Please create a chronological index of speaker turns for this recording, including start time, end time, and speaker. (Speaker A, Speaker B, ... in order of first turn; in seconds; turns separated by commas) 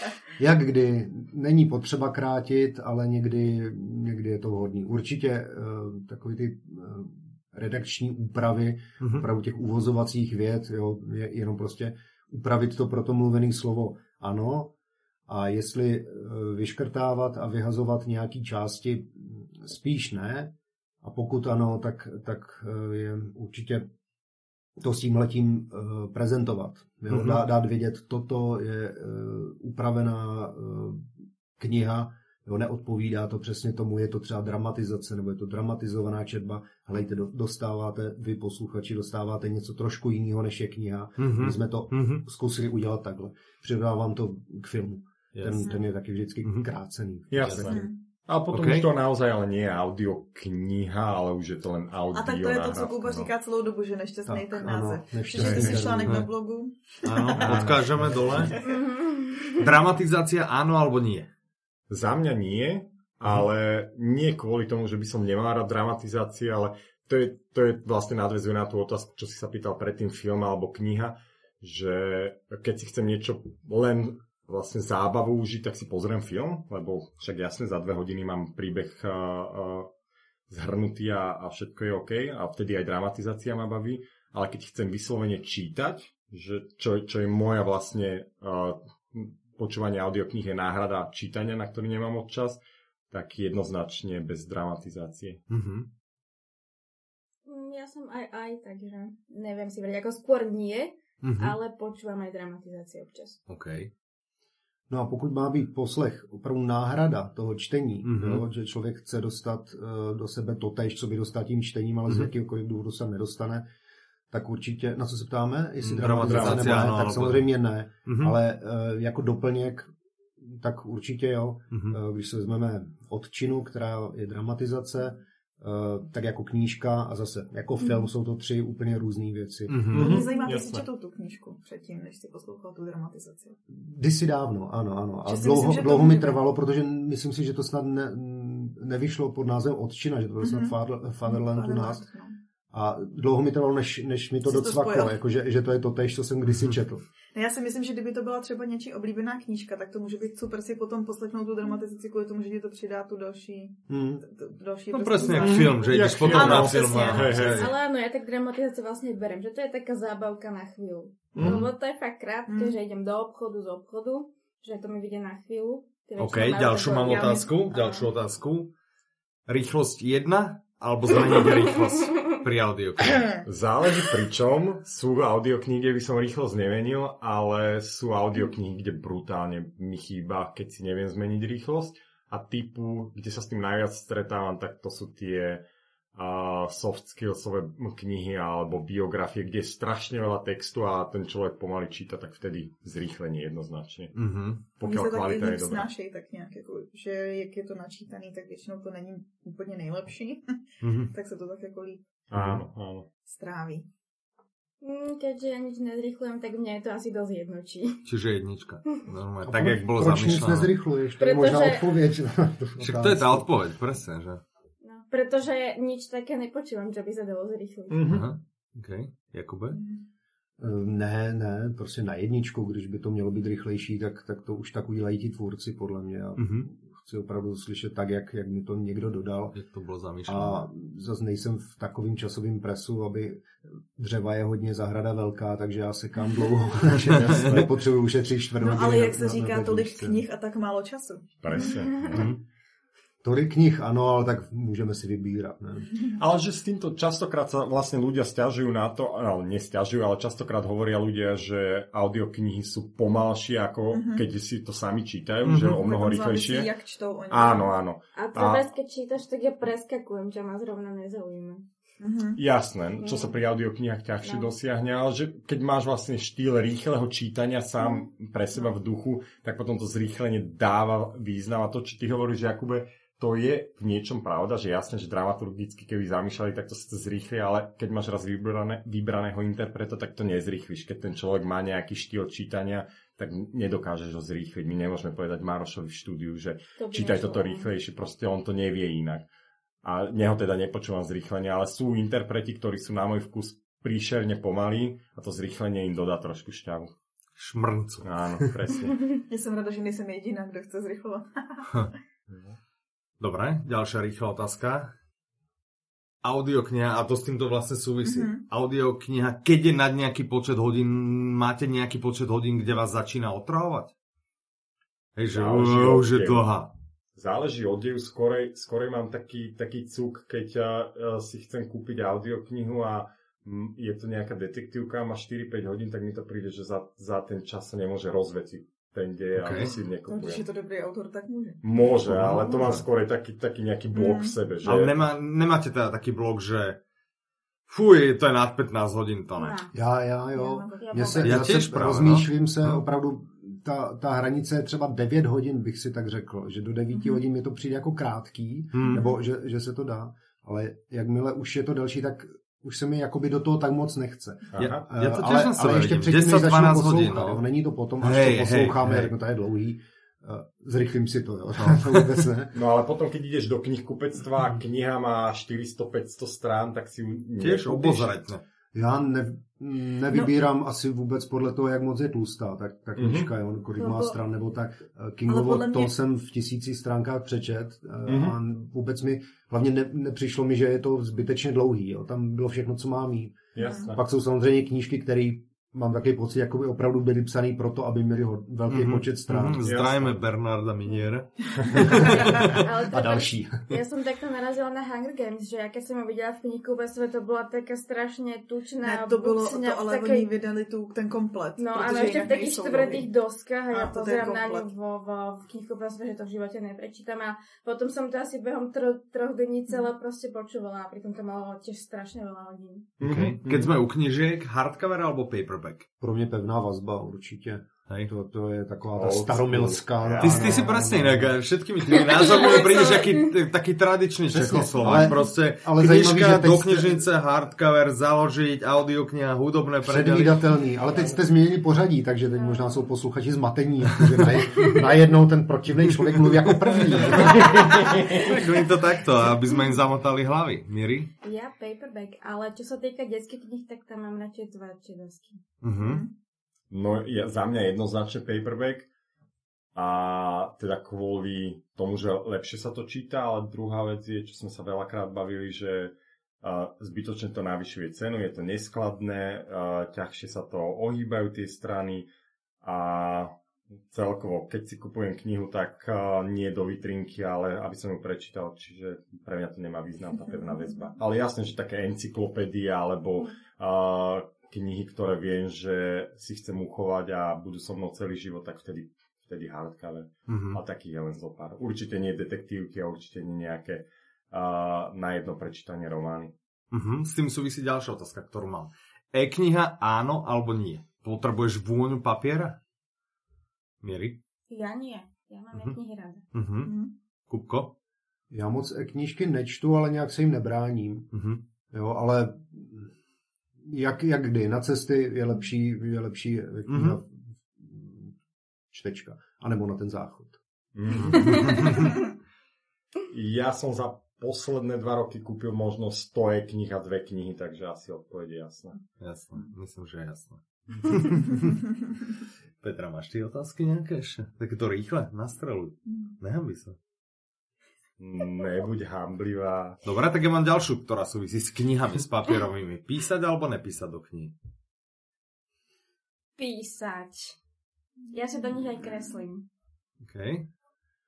Speaker A: 0.3-14.7, Speaker B: 9.0-9.3, Speaker A: 15.3-23.9, Speaker A: 24.8-47.8, Speaker B: 27.1-27.4, Speaker B: 41.2-42.2, Speaker B: 45.3-45.7, Speaker B: 46.4-46.7, Speaker C: 47.3-53.3, Speaker B: 47.4-47.8, Speaker D: 47.7-48.0, Speaker B: 48.5-48.9, Speaker D: 52.1-57.5, Speaker A: 54.2-56.3, Speaker C: 55.4-55.8, Speaker B: 57.0-58.6, Speaker C: 57.4-58.4, Speaker D: 58.4-58.8, Speaker E: 58.6-59.7, Speaker B: 59.6-61.3, Speaker C: 61.9-79.9, Speaker C: 80.5-95.4, Speaker B: 95.5-95.9, Speaker E: 97.5-103.4, Speaker B: 101.2-101.6, Speaker B: 103.5-103.9, Speaker A: 104.9-113.7, Speaker B: 108.0-108.4, Speaker A: 114.3-130.2, Speaker B: 115.8-117.5, Speaker C: 116.0-116.8, Speaker B: 118.0-118.4, Speaker B: 121.7-122.0, Speaker B: 129.7-130.2, Speaker D: 129.9-133.6, Speaker C: 129.9-130.8, Speaker A: 133.7-142.0, Speaker D: 135.2-136.4, Speaker D: 140.4-142.4, Speaker A: 142.7-147.0, Speaker D: 144.4-145.2, Speaker B: 146.5-146.8, Speaker D: 147.3-157.5, Speaker A: 153.9-154.2, Speaker B: 154.9-157.7, Speaker C: 155.4-157.7, Speaker E: 157.4-168.1, Speaker C: 161.3-161.7, Speaker B: 161.4-161.7, Speaker D: 162.5-162.8, Speaker B: 166.2-168.7, Speaker B: 169.5-173.3, Speaker C: 173.4-194.1, Speaker B: 194.1-194.6, Speaker C: 194.8-195.9, Speaker D: 194.8-202.0, Speaker B: 200.8-201.1, Speaker C: 202.3-203.1, Speaker D: 203.2-203.8, Speaker E: 204.8-208.0, Speaker B: 208.1-210.7, Speaker A: 209.4-213.5, Speaker E: 211.2-211.9, Speaker B: 212.8-214.4, Speaker E: 214.8-218.1, Speaker C: 217.9-218.3, Speaker B: 218.1-219.8, Speaker D: 219.7-220.0, Speaker A: 220.6-229.6, Speaker B: 226.4-226.7, Speaker B: 229.5-230.7, Speaker A: 230.2-240.2, Speaker C: 236.9-237.7, Speaker B: 237.0-237.6, Speaker D: 238.6-241.7, Speaker C: 241.4-242.3, Speaker E: 241.6-242.2, Speaker B: 242.1-242.4, Speaker A: 243.2-245.9, Speaker C: 246.2-256.7, Speaker D: 253.9-254.2, Speaker B: 255.4-255.8, Speaker D: 255.7-257.7, Speaker C: 257.3-258.7, Speaker E: 258.1-261.6, Speaker D: 262.0-262.4, Speaker C: 262.4-289.2, Speaker E: 263.0-263.3, Speaker E: 264.2-264.5, Speaker E: 267.8-268.1, Speaker E: 286.8-287.7, Speaker C: 289.8-296.9, Speaker B: 297.4-298.5, Speaker C: 298.0-299.1, Speaker D: 299.3-301.7, Speaker B: 301.7-301.9, Speaker C: 302.3-302.6, Speaker B: 303.2-304.9, Speaker B: 306.2-313.9, Speaker D: 308.0-308.4, Speaker B: 315.1-316.7, Speaker C: 315.3-316.6, Speaker C: 317.1-330.4, Speaker B: 329.3-329.7, Speaker D: 330.0-331.6, Speaker C: 331.6-335.0, Speaker B: 332.1-332.8, Speaker D: 333.9-334.4, Speaker B: 334.6-336.8, Speaker B: 337.7-339.6, Speaker E: 339.4-339.7, Speaker A: 339.7-362.6, Speaker D: 340.3-341.4, Speaker E: 340.8-341.5, Speaker B: 341.2-342.8, Speaker D: 346.9-347.2, Speaker B: 348.7-349.0, Speaker C: 354.5-354.8, Speaker B: 354.6-357.4, Speaker B: 358.0-359.1, Speaker B: 361.6-362.2, Speaker C: 362.5-368.1, Speaker B: 367.4-368.4, Speaker A: 368.7-389.6, Speaker C: 373.0-373.3, Speaker D: 373.8-374.1, Speaker D: 375.3-375.9, Speaker C: 378.1-378.4, Speaker C: 383.5-384.0, Speaker D: 383.6-383.9, Speaker B: 388.7-392.6, Speaker C: 389.6-390.2, Speaker A: 391.8-393.7, Speaker E: 391.9-400.3, Speaker D: 398.8-403.1, Speaker E: 401.6-412.9, Speaker D: 403.7-404.7, Speaker C: 413.0-413.8, Speaker B: 413.0-415.9, Speaker A: 416.0-421.4, Speaker C: 418.9-420.8, Speaker B: 420.2-430.5, Speaker E: 422.2-423.0, Speaker A: 424.3-427.1, Speaker A: 429.8-437.7, Speaker E: 432.3-432.8, Speaker B: 436.4-441.1, Speaker C: 437.5-438.2, Speaker E: 441.2-445.4, Speaker B: 445.6-446.0, Speaker D: 445.8-446.1, Speaker C: 446.7-448.9, Speaker C: 449.7-462.1, Speaker C: 462.6-463.3, Speaker C: 463.9-486.3, Speaker B: 480.3-480.6, Speaker B: 486.7-492.6, Speaker B: 493.8-494.2, Speaker E: 494.5-496.2, Speaker B: 496.3-496.8, Speaker D: 496.6-496.9, Speaker B: 497.3-497.7, Speaker A: 498.3-501.1, Speaker B: 501.1-501.4, Speaker A: 501.7-502.9, Speaker A: 503.6-508.1, Speaker B: 506.7-507.0, Speaker A: 508.7-510.4, Speaker C: 510.7-511.7, Speaker B: 510.9-511.9, Speaker C: 513.1-518.8, Speaker B: 519.0-521.6, Speaker B: 522.6-526.8, Speaker D: 525.9-526.1, Speaker C: 528.0-529.8, Speaker B: 529.8-534.3, Speaker E: 536.4-537.4, Speaker E: 538.1-539.4, Speaker B: 540.0-540.5